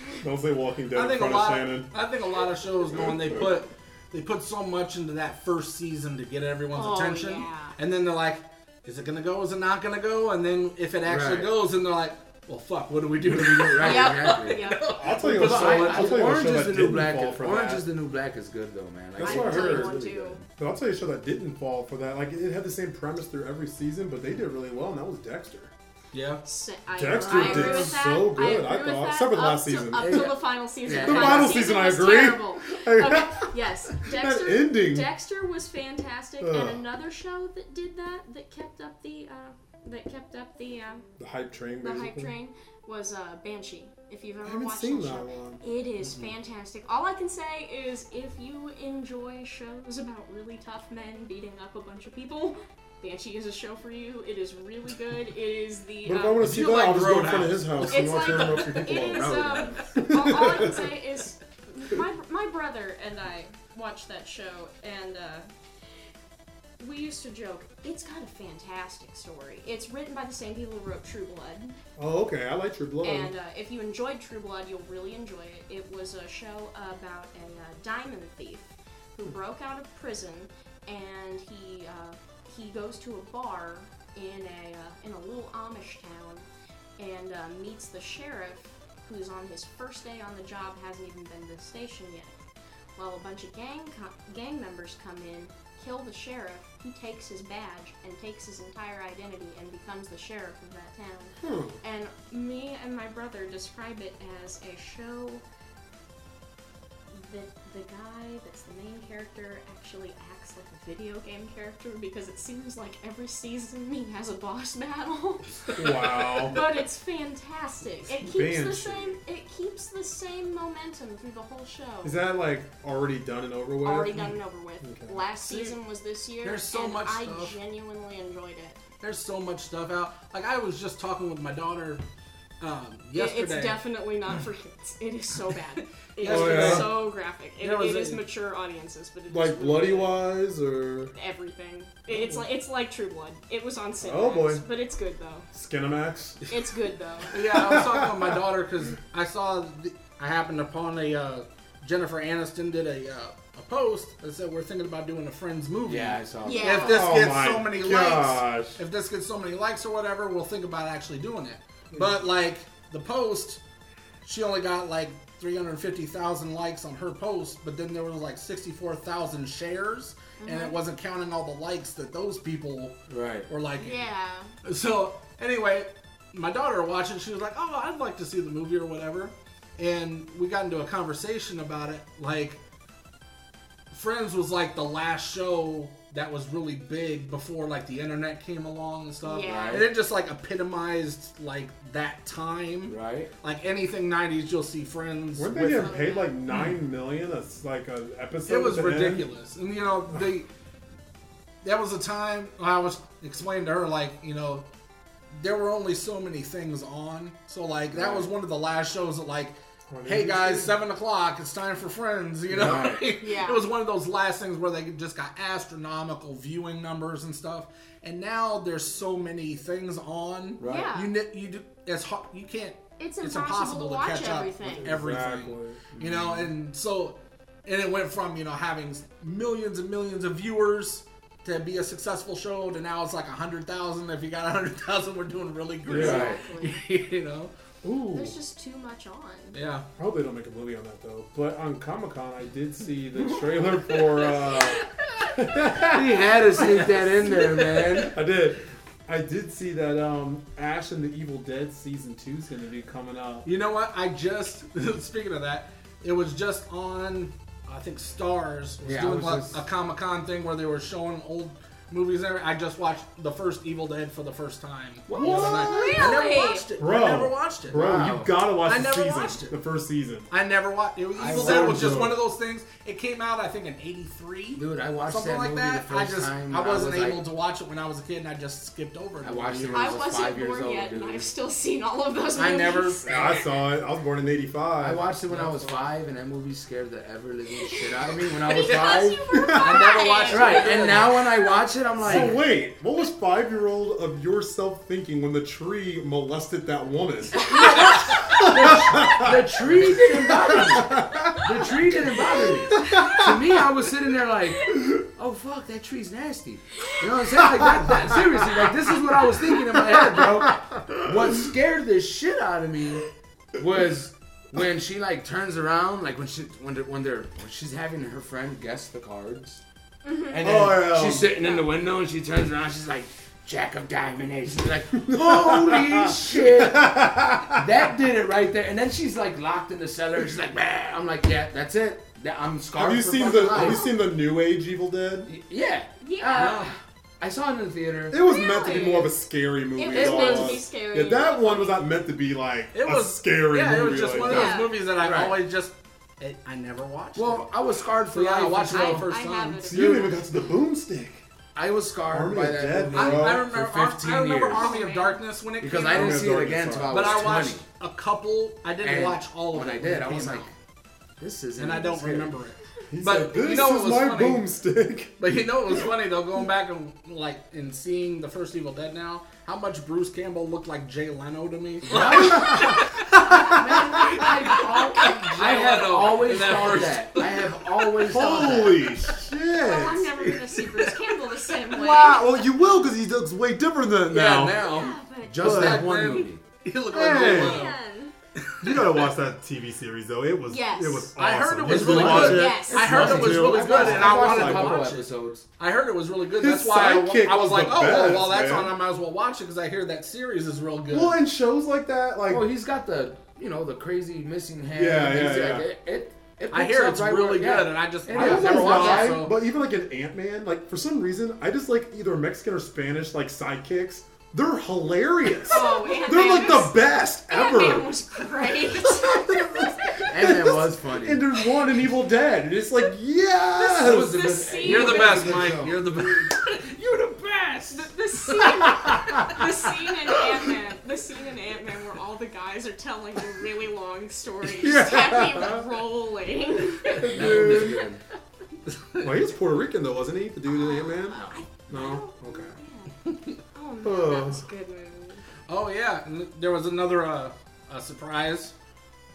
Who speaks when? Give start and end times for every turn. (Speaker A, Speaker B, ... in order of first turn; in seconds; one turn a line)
Speaker A: 0.2-1.9
Speaker B: 0.9-16.4
Speaker A: 2.9-3.5
Speaker C: 6.7-7.8
Speaker D: 11.1-11.5
Speaker D: 13.2-14.7
Speaker C: 13.8-14.8
Speaker A: 15.0-17.9
Speaker D: 15.2-20.5
Speaker A: 19.2-20.0
Speaker C: 19.2-20.4
Speaker A: 20.6-25.7
Speaker B: 26.1-26.4
Speaker C: 26.4-41.0
Speaker A: 26.9-30.4
Speaker B: 27.3-27.9
Speaker D: 29.9-31.7
Speaker A: 30.9-35.1
Speaker A: 36.4-36.8
Speaker A: 41.2-42.3
Speaker C: 41.8-56.7
Speaker A: 44.4-45.6
Speaker D: 46.0-46.3
Speaker A: 56.0-60.9
Speaker B: 56.4-58.8
Speaker C: 57.8-65.5
Speaker D: 58.9-60.0
Speaker C: 66.8-71.8
Speaker A: 72.0-73.3
Speaker C: 73.0-86.5
Speaker C: 87.0-92.5
Speaker C: 93.0-105.4
Speaker A: 101.4-101.8
Speaker C: 107.1-122.2
Speaker A: 115.8-116.6
Speaker A: 118.1-119.2
Speaker A: 122.0-125.3
Speaker C: 123.8-128.8
Speaker B: 125.5-125.8
Speaker B: 126.4-127.5
Speaker B: 129.0-132.0
Speaker B: 132.6-133.8
Speaker C: 133.2-140.3
Speaker B: 136.2-138.3
Speaker A: 136.2-137.0
Speaker A: 139.3-141.1
Speaker C: 141.1-145.5
Speaker A: 142.1-142.4
Speaker A: 144.0-144.7
Speaker A: 145.5-146.4
Speaker C: 146.5-147.3
Speaker B: 147.3-163.6
Speaker A: 147.4-148.4
Speaker D: 155.8-156.8
Speaker C: 156.4-157.1
Speaker A: 156.8-158.8
Speaker B: 164.2-174.0
Speaker C: 170.4-170.8
Speaker D: 173.1-173.5
Speaker C: 173.8-174.5
Speaker B: 174.6-182.6
Speaker B: 183.9-195.9
Speaker C: 189.2-189.8
Speaker D: 189.5-189.9
Speaker D: 192.9-193.3
Speaker A: 195.4-199.3
Speaker C: 195.5-196.4
Speaker B: 198.5-200.5
Speaker B: 201.6-204.7
Speaker B: 205.3-237.5
Speaker D: 207.9-208.3
Speaker A: 209.9-210.8
Speaker D: 212.5-213.1
Speaker A: 212.6-212.8
Speaker C: 213.2-213.7
Speaker D: 220.6-220.9
Speaker C: 220.6-221.1
Speaker C: 223.0-225.0
Speaker A: 224.7-225.8
Speaker D: 225.9-226.5
Speaker A: 235.9-236.3
Speaker D: 235.9-236.4
Speaker C: 236.0-236.8
Speaker A: 237.8-238.4
Speaker C: 238.1-239.6
Speaker B: 239.5-239.9
Speaker A: 240.0-247.3
Speaker B: 244.3-244.5
Speaker D: 245.9-248.2
Speaker B: 246.6-248.1
Speaker A: 247.9-253.5
Speaker B: 253.4-267.9
Speaker D: 258.8-259.6
Speaker D: 265.1-266.2
Speaker A: 265.2-265.7
Speaker C: 265.5-266.6
Speaker A: 266.8-270.3
Speaker D: 267.7-268.4
Speaker B: 268.6-269.6
Speaker B: 270.3-280.0
Speaker D: 271.2-272.1
Speaker A: 271.2-272.2
Speaker D: 274.6-277.3
Speaker D: 279.2-281.3
Speaker C: 279.7-283.1
Speaker B: 282.4-283.4
Speaker A: 283.0-285.9
Speaker D: 284.8-289.3
Speaker C: 287.6-290.9
Speaker B: 288.5-291.3
Speaker A: 289.3-289.9
Speaker D: 290.3-292.4
Speaker A: 292.0-301.7
Speaker C: 297.3-298.2
Speaker D: 297.4-319.6
Speaker A: 302.7-303.3
Speaker C: 302.8-303.1
Speaker A: 307.9-308.1
Speaker A: 309.9-311.5
Speaker C: 320.1-320.3
Speaker D: 320.3-333.9
Speaker A: 320.4-321.3
Speaker A: 325.0-327.6
Speaker A: 332.8-335.3
Speaker C: 333.5-333.9
Speaker D: 335.3-338.2
Speaker C: 336.0-336.7
Speaker B: 336.3-336.8
Speaker A: 338.1-344.6
Speaker C: 338.2-339.2
Speaker C: 339.8-341.9
Speaker D: 339.9-340.6
Speaker B: 342.7-347.5
Speaker C: 344.2-344.8
Speaker D: 344.3-345.4
Speaker D: 347.2-349.1
Speaker B: 348.1-349.8
Speaker C: 348.7-350.2
Speaker A: 349.6-351.2
Speaker D: 351.6-354.8
Speaker A: 352.1-353.5
Speaker B: 352.9-356.4
Speaker C: 354.5-355.2
Speaker D: 355.6-357.6
Speaker A: 355.8-357.1
Speaker B: 356.9-360.5
Speaker D: 358.8-360.5
Speaker D: 361.2-362.3
Speaker B: 361.6-364.5
Speaker A: 362.9-365.9
Speaker B: 365.2-378.3
Speaker D: 371.9-379.1
Speaker A: 372.1-373.7
Speaker A: 378.0-380.3
Speaker C: 379.6-382.5
Speaker B: 380.5-381.1
Speaker A: 381.7-384.6
Speaker B: 384.1-387.8
Speaker C: 384.6-385.6
Speaker D: 385.3-386.4
Speaker A: 385.4-385.9
Speaker A: 386.9-387.7
Speaker C: 387.1-388.1
Speaker B: 388.4-389.1
Speaker A: 388.6-394.9
Speaker C: 390.5-391.1
Speaker B: 391.2-395.1
Speaker D: 391.7-395.4
Speaker C: 392.1-392.9
Speaker B: 395.6-401.2
Speaker A: 396.4-398.8
Speaker A: 400.9-402.5
Speaker D: 402.3-409.3
Speaker A: 404.7-405.7
Speaker B: 406.5-409.4
Speaker A: 408.1-424.3
Speaker C: 415.4-420.1
Speaker D: 420.1-421.3
Speaker D: 423.6-426.1
Speaker C: 423.6-425.5
Speaker B: 424.6-427.7
Speaker C: 427.7-438.2
Speaker A: 428.5-429.5
Speaker A: 434.4-435.7
Speaker A: 436.9-437.9
Speaker D: 437.0-438.0
Speaker B: 438.7-439.1
Speaker A: 439.0-442.6
Speaker C: 440.5-442.9
Speaker D: 441.1-441.4
Speaker C: 443.5-445.2
Speaker A: 443.8-444.4
Speaker B: 445.5-448.5